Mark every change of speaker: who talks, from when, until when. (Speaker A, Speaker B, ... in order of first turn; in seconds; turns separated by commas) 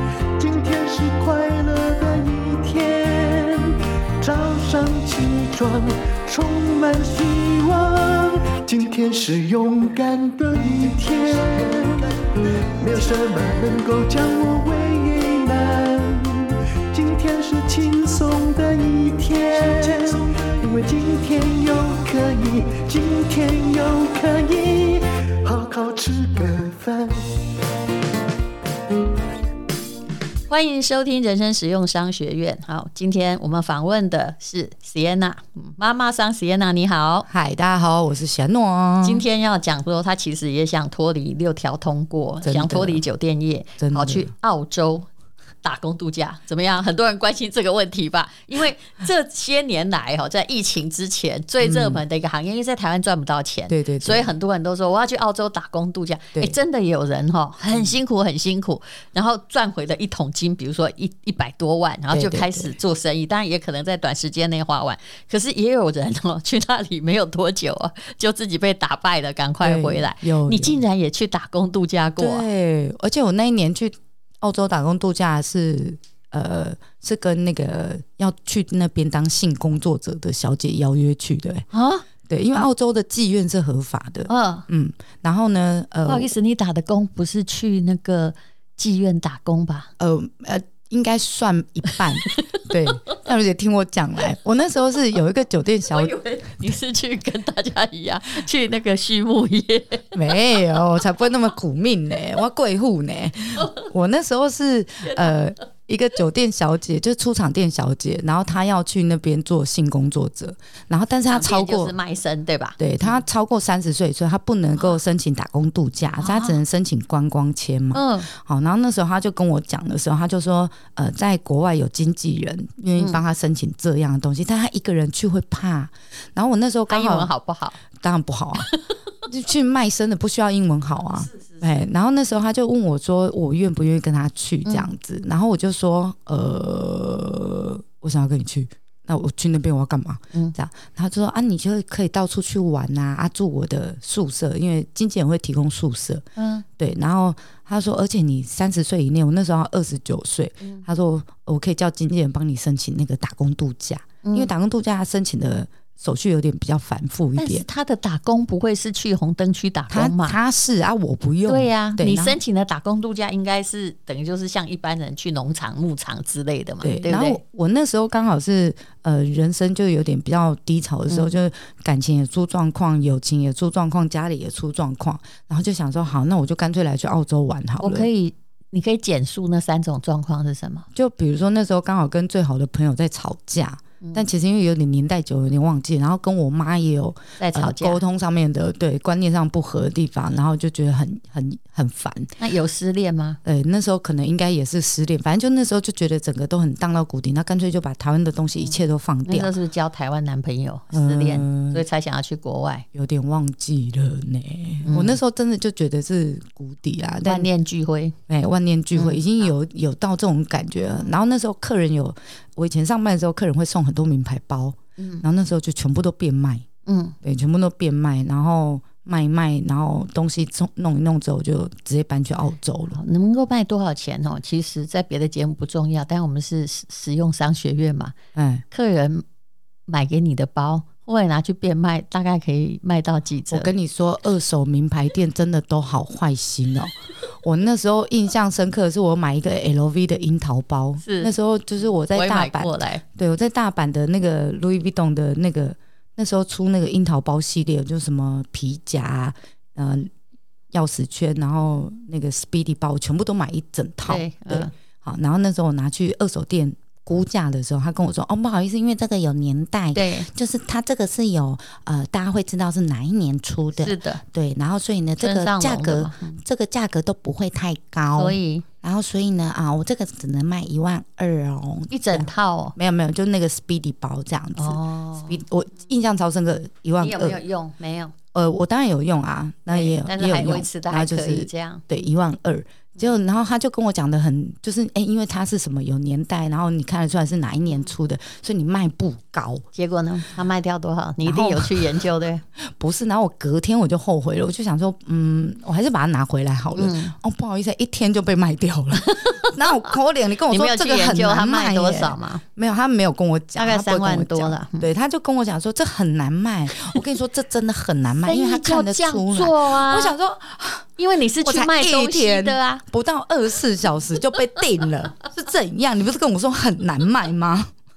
Speaker A: 0.3-27.2, Speaker B: 30.5-37.3, Speaker C: 37.3-39.2, Speaker B: 39.0-45.1, Speaker C: 42.4-43.0, Speaker C: 43.8-44.3, Speaker B: 45.6-72.5, Speaker C: 51.6-52.0, Speaker C: 53.7-54.3, Speaker C: 62.1-62.8, Speaker C: 69.6-70.8, Speaker C: 72.2-81.7, Speaker B: 81.7-82.0, Speaker C: 82.3-86.3, Speaker B: 84.3-84.7, Speaker B: 86.1-89.9, Speaker C: 90.0-96.2, Speaker B: 95.8-100.2, Speaker C: 100.1-112.0, Speaker B: 103.6-103.9, Speaker B: 111.3-113.2, Speaker C: 112.8-127.3, Speaker B: 116.2-116.6, Speaker B: 117.9-118.3, Speaker B: 126.9-127.8, Speaker C: 127.9-128.7, Speaker C: 129.2-146.3, Speaker B: 131.2-131.8, Speaker B: 134.7-134.9, Speaker B: 146.4-146.7, Speaker C: 146.8-157.7, Speaker B: 154.2-154.5, Speaker B: 157.4-160.4, Speaker C: 159.9-162.4, Speaker B: 161.5-167.4, Speaker C: 166.8-178.1, Speaker B: 177.8-180.9, Speaker C: 180.9-192.3, Speaker B: 184.0-184.3, Speaker B: 187.4-188.0, Speaker B: 192.4-193.4, Speaker C: 193.4-199.5, Speaker B: 199.2-202.9, Speaker C: 200.9-201.8, Speaker C: 202.9-207.5, Speaker B: 204.8-205.2, Speaker B: 207.3-208.2, Speaker C: 208.3-216.7, Speaker B: 208.9-209.2, Speaker B: 215.0-215.2, Speaker B: 216.9-217.2, Speaker C: 217.2-223.0, Speaker B: 222.9-228.1, Speaker C: 228.3-228.6, Speaker B: 228.7-229.2, Speaker B: 229.9-233.7, Speaker C: 233.5-250.1, Speaker B: 241.0-241.3, Speaker B: 242.1-243.0, Speaker C: 250.7-277.4, Speaker B: 254.1-254.7, Speaker B: 259.9-260.3, Speaker B: 263.8-264.2, Speaker B: 265.2-266.4, Speaker B: 268.2-268.6, Speaker B: 271.9-272.8, Speaker B: 274.6-275.4, Speaker B: 277.0-278.1, Speaker C: 278.3-289.6, Speaker B: 279.7-281.9, Speaker B: 289.8-292.4, Speaker C: 291.2-292.1, Speaker C: 292.6-310.9, Speaker B: 296.8-297.2, Speaker B: 299.0-299.9, Speaker B: 300.5-302.4, Speaker B: 303.6-304.9, Speaker B: 308.2-310.2, Speaker B: 311.0-312.8, Speaker C: 311.4-317.7